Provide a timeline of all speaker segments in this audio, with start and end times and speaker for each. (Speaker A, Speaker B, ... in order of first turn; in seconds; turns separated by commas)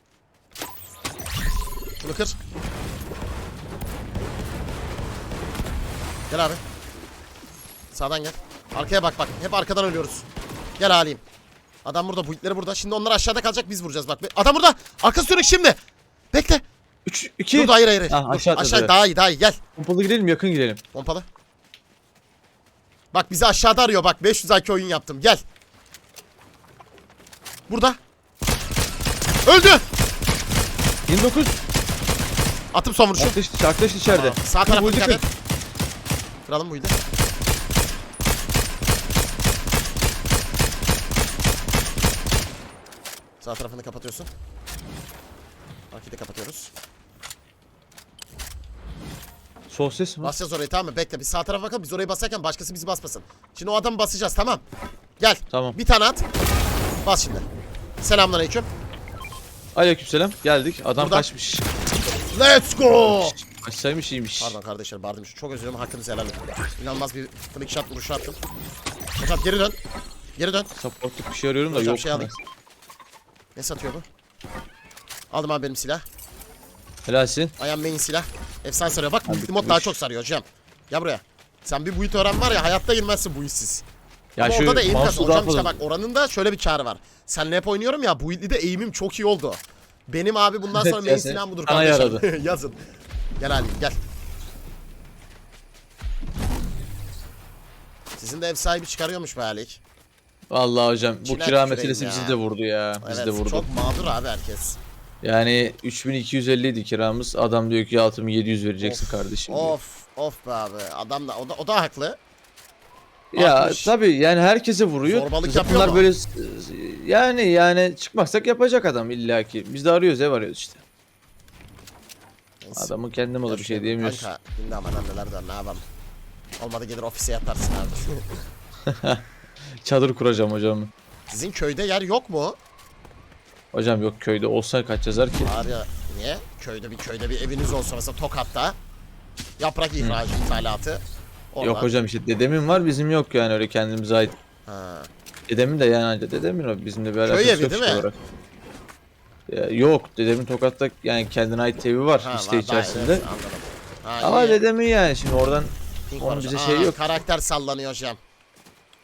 Speaker A: 2.0-2.4, Speaker A: 6.3-6.6, Speaker A: 7.9-10.3, Speaker A: 10.8-11.2, Speaker A: 11.8-15.8, Speaker A: 16.3-16.6, Speaker B: 17.1-18.9, Speaker A: 17.5-19.6, Speaker B: 19.8-20.8, Speaker A: 20.9-21.2, Speaker A: 23.1-25.4, Speaker A: 27.7-28.0, Speaker A: 29.4-29.8, Speaker B: 31.1-31.6, Speaker A: 32.7-33.4, Speaker B: 33.2-35.2, Speaker A: 34.0-35.2, Speaker A: 36.5-36.9, Speaker A: 43.4-44.3, Speaker A: 45.9-46.7, Speaker B: 49.7-50.3, Speaker A: 50.2-54.6, Speaker A: 55.2-56.2, Speaker B: 55.5-55.8, Speaker A: 57.0-57.4, Speaker A: 58.0-58.7, Speaker B: 59.7-61.6, Speaker A: 61.0-61.3, Speaker A: 62.3-63.4, Speaker B: 63.0-64.6, Speaker A: 64.4-68.4, Speaker A: 69.2-69.8, Speaker A: 70.4-70.7, Speaker B: 70.8-72.4, Speaker A: 71.7-72.3, Speaker A: 73.5-74.0, Speaker A: 75.3-76.0, Speaker B: 77.0-77.5, Speaker A: 77.6-83.8, Speaker B: 79.2-80.0, Speaker B: 84.4-85.7, Speaker A: 84.4-92.8, Speaker B: 90.7-92.2, Speaker A: 93.4-94.0, Speaker A: 98.2-99.8, Speaker B: 100.5-103.7, Speaker A: 101.2-102.4, Speaker A: 103.0-104.8, Speaker B: 105.2-109.8, Speaker A: 108.8-112.2, Speaker B: 113.3-120.8, Speaker A: 113.3-113.9, Speaker A: 115.0-116.1, Speaker A: 122.6-122.9, Speaker B: 122.8-124.3, Speaker A: 123.5-125.8, Speaker A: 126.6-128.4, Speaker B: 128.8-129.2, Speaker B: 129.8-130.9, Speaker A: 131.3-132.6, Speaker B: 133.7-135.5, Speaker A: 135.4-138.8, Speaker A: 139.6-141.9, Speaker B: 141.6-144.3, Speaker A: 144.7-145.1, Speaker B: 145.5-148.2, Speaker A: 147.2-148.0, Speaker B: 149.5-153.2, Speaker A: 152.2-154.6, Speaker B: 154.2-157.0, Speaker A: 156.1-158.2